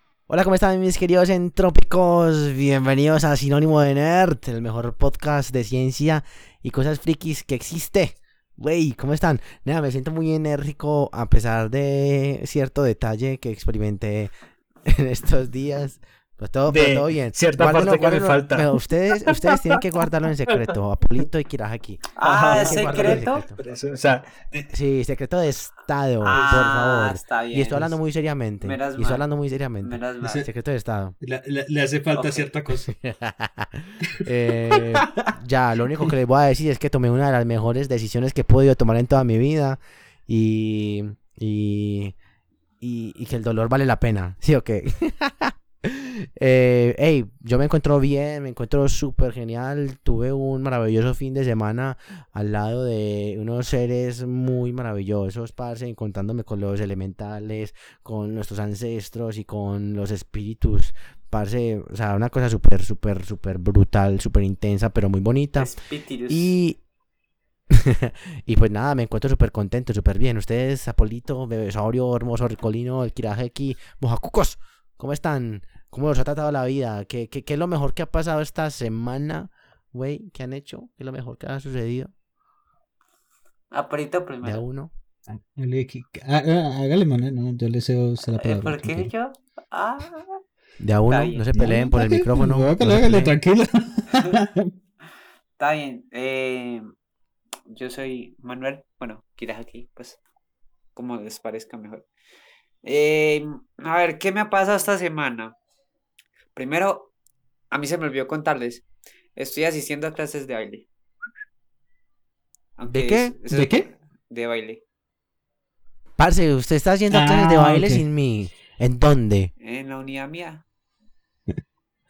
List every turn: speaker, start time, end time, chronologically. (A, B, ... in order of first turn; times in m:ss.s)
0:00.3-0:14.3 A
0:14.8-0:23.6 A
0:16.7-0:18.7 B
0:19.2-0:19.8 B
0:22.2-0:23.4 C
0:22.2-0:24.7 B
0:24.7-0:31.2 A
0:26.2-0:27.9 C
0:28.6-0:29.2 C
0:29.8-0:30.5 C
0:30.2-0:30.5 B
0:31.2-0:32.9 B
0:32.1-0:32.5 C
0:32.9-0:42.1 A
0:34.1-0:35.3 B
0:42.8-1:05.7 A
1:05.6-1:06.5 C
1:06.3-1:06.8 A
1:07.7-1:22.1 A
1:23.7-1:24.6 C
1:24.4-1:24.9 A
1:25.3-1:29.1 B
1:28.4-1:30.4 C
1:30.8-1:33.3 A
1:31.1-1:31.5 C
1:31.5-1:34.7 B
1:35.6-1:36.9 C
1:37.7-1:40.2 C
1:41.0-1:42.0 C
1:42.8-1:45.6 C
1:46.5-1:47.1 C
1:47.7-1:48.8 C
1:49.4-1:50.8 C
1:52.8-1:54.8 C
1:52.8-1:53.3 A
1:53.5-1:53.9 B
1:56.2-1:59.5 A
1:57.1-1:58.0 B
1:59.6-2:00.6 C